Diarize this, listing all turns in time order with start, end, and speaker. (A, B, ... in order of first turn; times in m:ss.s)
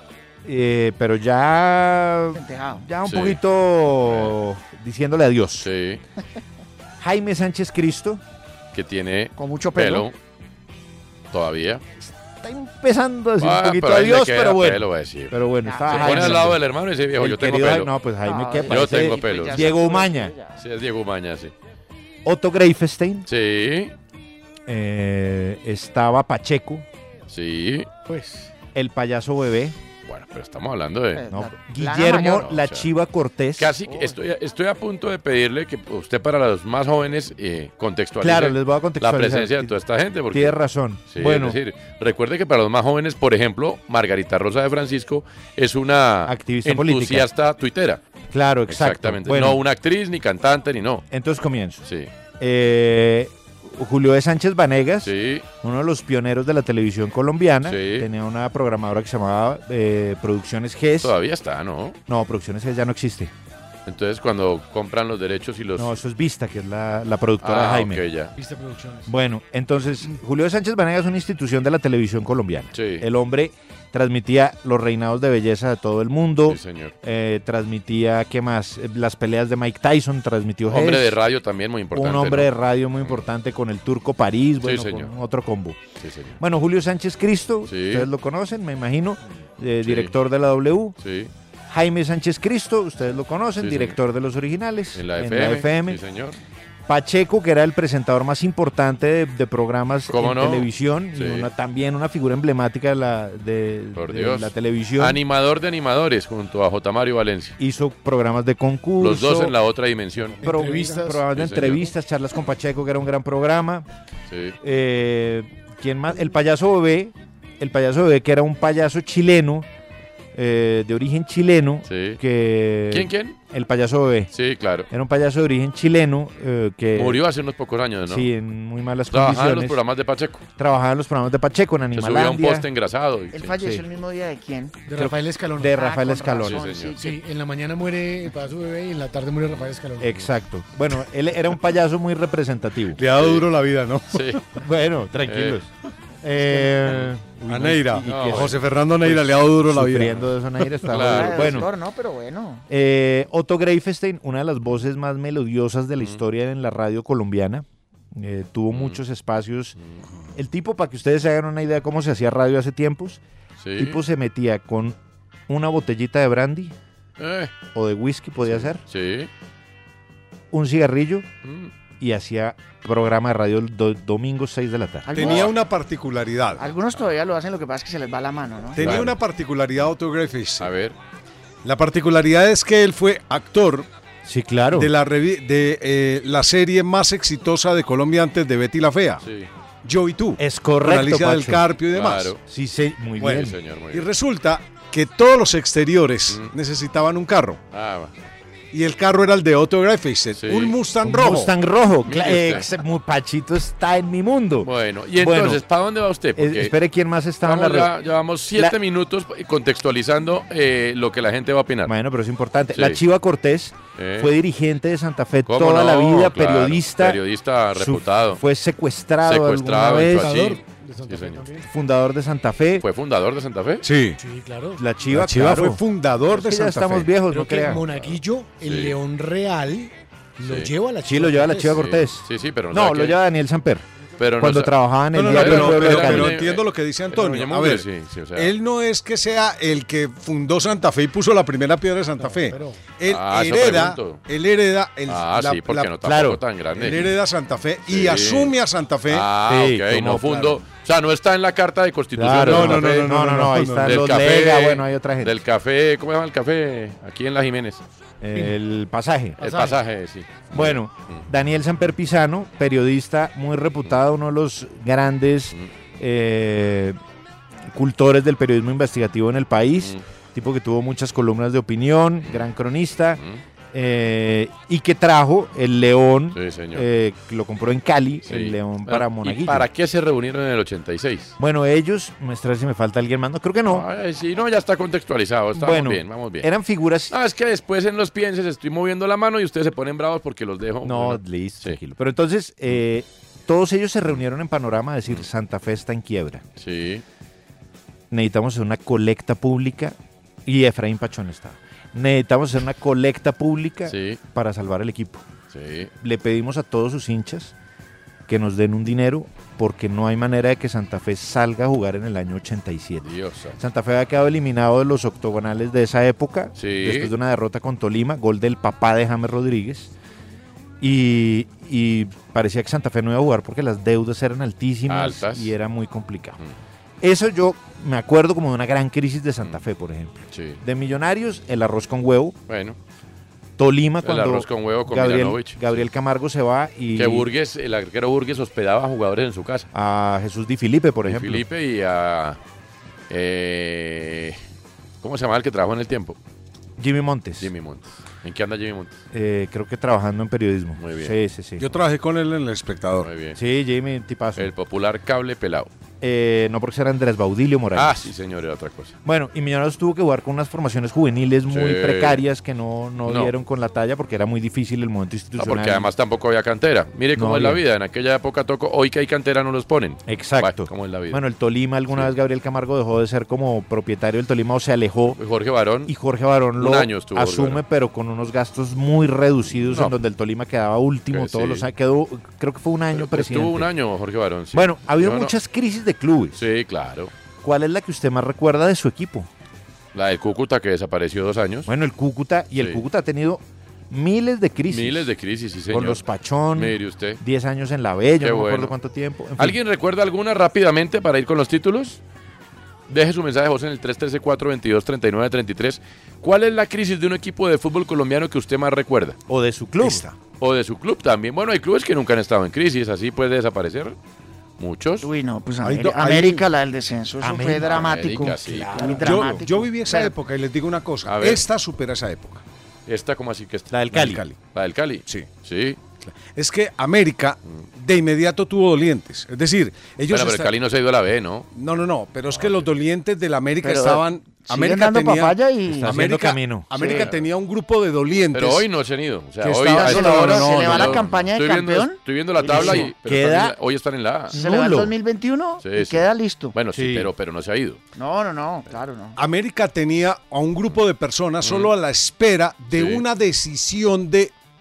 0:00.4-0:05.7 A
0:02.4-0:02.8 B
0:03.1-0:03.4 C
0:04.0-0:04.3 C
0:05.6-0:06.0 C
0:07.0-0:08.2 A
0:08.7-0:10.2 C
0:09.4-0:10.1 B
0:11.3-0:11.8 C
0:12.0-0:16.6 A
0:13.4-0:17.9 C
0:15.6-0:16.5 B
0:17.2-0:20.4 A
0:18.2-0:20.6 B
0:18.7-0:19.6 C
0:20.6-0:21.5 C
0:22.2-0:23.3 A
0:23.3-0:23.9 C
0:24.7-0:26.9 A
0:27.3-0:27.9 C
0:28.1-0:28.5 D
0:28.7-0:29.8 A
0:30.1-0:31.2 C
0:31.2-0:32.5 B
0:31.3-0:33.8 A
0:32.2-0:32.9 C
0:33.6-0:48.0 C
0:33.9-0:34.2 B
0:38.2-0:39.7 A
0:40.3-0:41.6 A
0:46.3-0:47.3 A
0:48.3-0:49.6 A
0:48.7-0:51.0 C
0:51.1-0:51.8 A
0:51.8-0:52.1 C
0:52.4-1:01.2 A
0:55.0-0:55.4 C
0:57.6-0:58.1 C
1:01.0-1:02.0 C
1:02.1-1:03.3 A
1:03.9-1:06.0 C
1:05.8-1:08.0 A
1:07.4-1:08.3 C
1:08.4-1:09.1 D
1:09.1-1:21.2 A
1:12.7-1:13.1 C
1:16.5-1:16.9 C
1:20.7-1:23.2 C
1:21.9-1:25.8 A
1:24.6-1:25.1 C
1:26.0-1:26.4 C
1:26.4-1:31.0 A
1:27.7-1:28.1 C
1:29.8-1:30.1 C
1:31.0-1:31.3 C
1:31.7-1:36.0 A
1:33.6-1:34.0 C
1:35.0-1:36.4 C
1:36.9-1:45.2 A
1:40.1-1:41.5 C
1:44.0-1:47.6 C
1:47.6-1:49.5 A
1:49.0-1:50.4 C
1:50.4-1:51.2 D
1:50.4-1:53.9 A
1:51.3-1:51.9 C
1:54.3-1:54.6 C
1:54.6-1:59.7 A
2:00.3-2:04.3 A
2:01.9-2:02.2 C
2:02.9-2:03.4 C
2:04.3-2:04.9 C
2:04.9-2:07.2 A
2:07.0-2:08.3 C
2:08.1-2:09.8 A
2:09.1-2:10.4 C
2:10.6-2:12.7 A
2:11.9-2:13.5 C
2:13.3-2:14.9 B
2:13.6-2:13.8 A
2:14.9-2:15.8 D
2:15.0-2:16.7 A
2:15.7-2:17.2 B
2:16.4-2:17.0 C
2:17.0-2:20.2 D
2:20.0-2:23.0 A
2:23.0-2:24.4 E
2:23.2-2:23.4 C
2:24.1-2:24.4 C
2:24.6-2:25.7 A
2:25.2-2:25.6 C
2:26.2-2:31.7 A
2:26.4-2:26.7 D
2:27.5-2:30.3 E
2:28.0-2:28.6 C
2:30.8-2:31.7 C
2:31.0-2:32.6 B
2:32.7-2:39.8 A
2:38.7-2:39.0 C
2:40.4-2:43.2 A
2:43.6-2:44.0 C
2:43.8-2:45.0 A
2:45.5-2:46.8 A
2:47.2-2:47.5 C
2:47.7-2:48.8 A
2:48.4-2:49.3 C
2:50.5-2:51.3 A
2:51.4-2:51.7 C
2:52.0-2:55.4 A
2:55.1-2:55.4 B
2:55.2-2:56.7 E
2:55.2-2:55.5 C
2:56.6-2:59.1 B
2:58.8-2:59.2 A
2:58.8-3:00.7 E
3:00.6-3:01.0 C
3:01.6-3:03.9 E
3:04.2-3:04.9 A
3:04.7-3:09.2 E
3:09.2-3:09.5 C
3:09.8-3:12.4 E
3:10.4-3:11.6 A
3:11.9-3:12.4 C
3:12.4-3:13.6 A
3:13.2-3:17.6 E
3:13.3-3:14.1 C
3:17.7-3:18.1 C
3:18.7-3:21.5 E
3:20.4-3:20.8 C
3:21.0-3:25.6 A
3:22.1-3:22.7 C
3:24.6-3:26.8 C
3:26.4-3:27.9 A
3:27.4-3:31.9 C
3:28.5-3:28.8 A
3:31.9-3:37.2 A
3:32.7-3:33.0 C
3:34.0-3:34.3 C
3:35.4-3:38.4 C
3:37.7-3:40.6 A
3:39.2-3:41.4 C
3:40.6-3:41.7 D
3:41.7-3:42.8 A
3:42.8-3:43.8 C
3:43.8-3:44.2 E
3:44.2-3:44.8 D
3:44.8-3:47.8 A
3:45.1-3:47.1 E
3:47.2-3:51.8 D
3:47.9-3:49.0 C
3:50.4-3:50.7 C
3:51.0-3:53.8 A
3:51.6-3:53.2 C
3:54.2-3:58.5 C
3:54.4-3:56.4 A
3:55.1-4:05.9 E
4:02.2-4:02.9 D
4:03.1-4:04.2 C
4:05.1-4:07.1 C
4:05.9-4:06.4 A
4:06.7-4:09.3 E
4:07.9-4:08.5 C
4:09.1-4:13.1 C
4:09.5-4:10.6 A
4:12.2-4:15.4 A
4:12.3-4:14.4 E
4:13.8-4:17.8 C
4:18.2-4:19.6 A
4:19.4-4:21.2 C
4:20.5-4:27.0 A
4:27.7-4:33.2 A
4:33.7-4:39.7 A
4:36.3-4:36.8 C
4:38.2-4:41.4 C
4:41.4-4:43.9 A
4:43.7-4:46.5 C
4:45.6-4:47.1 A
4:47.1-4:51.8 C
4:50.8-4:56.4 A
4:56.6-4:57.0 C
4:58.1-5:05.2 A
5:03.9-5:04.2 C
5:05.5-5:05.9 C
5:06.0-5:07.5 A
5:08.3-5:19.9 A
5:13.0-5:13.6 C
5:16.6-5:17.1 C
5:20.8-5:26.4 A
5:24.9-5:25.5 C
5:27.0-5:32.4 A
5:30.3-5:30.6 C
5:32.5-5:32.8 C
5:33.6-5:37.3 A
5:34.0-5:35.9 C
5:37.0-5:39.7 C
5:39.7-5:41.4 A
5:41.1-5:42.4 C
5:43.1-5:44.4 C
5:45.0-5:46.2 C
5:46.8-5:47.5 A
5:47.4-5:49.0 C
5:49.1-5:51.7 A
5:50.8-5:51.2 C
5:51.6-5:53.1 E
5:53.0-5:53.4 C
5:53.4-5:54.5 A
5:54.4-5:55.7 C
5:56.0-5:58.1 A
5:57.8-5:59.0 C
5:59.0-6:05.9 A
6:01.5-6:02.2 C
6:03.1-6:03.3 C
6:05.4-6:11.2 C
6:07.2-6:07.6 A
6:10.1-6:15.2 A
6:15.2-6:15.9 C
6:15.9-6:23.7 A
6:16.6-6:17.6 C
6:19.5-6:20.0 C
6:21.1-6:21.7 C
6:22.9-6:25.3 C
6:24.5-6:26.4 A
6:26.4-6:27.1 C
6:27.4-6:29.3 A
6:29.9-6:31.7 C
6:31.7-6:35.1 A
6:34.7-6:36.0 C
6:35.7-6:39.6 A
6:36.6-6:37.2 C
6:38.2-6:38.7 C
6:39.4-6:42.0 C
6:42.9-6:49.2 C
6:49.3-6:50.0 A
6:49.8-6:50.2 E
6:50.4-6:54.0 C
6:54.6-6:55.1 C
6:55.0-7:00.2 B
6:55.6-6:56.4 E
6:55.8-6:56.2 A
6:57.2-6:59.4 A
6:57.6-6:58.7 C
6:59.0-7:02.4 E
7:01.1-7:01.4 C
7:02.9-7:03.8 C
7:03.7-7:04.2 A
7:03.9-7:04.4 E
7:04.5-7:05.8 C
7:06.0-7:10.5 E
7:10.1-7:11.5 C
7:11.5-7:18.7 E
7:12.3-7:12.7 C
7:13.6-7:16.1 B
7:15.7-7:17.0 A
7:16.7-7:17.1 B
7:18.3-7:24.3 C
7:19.6-7:21.0 A
7:19.6-7:22.9 B
7:22.4-7:23.6 A
7:24.3-7:24.9 A
7:24.3-7:26.6 B
7:25.6-7:27.8 C
7:26.7-7:27.1 A
7:28.0-7:29.2 B
7:29.2-7:34.3 E
7:31.4-7:31.7 C
7:32.7-7:33.0 C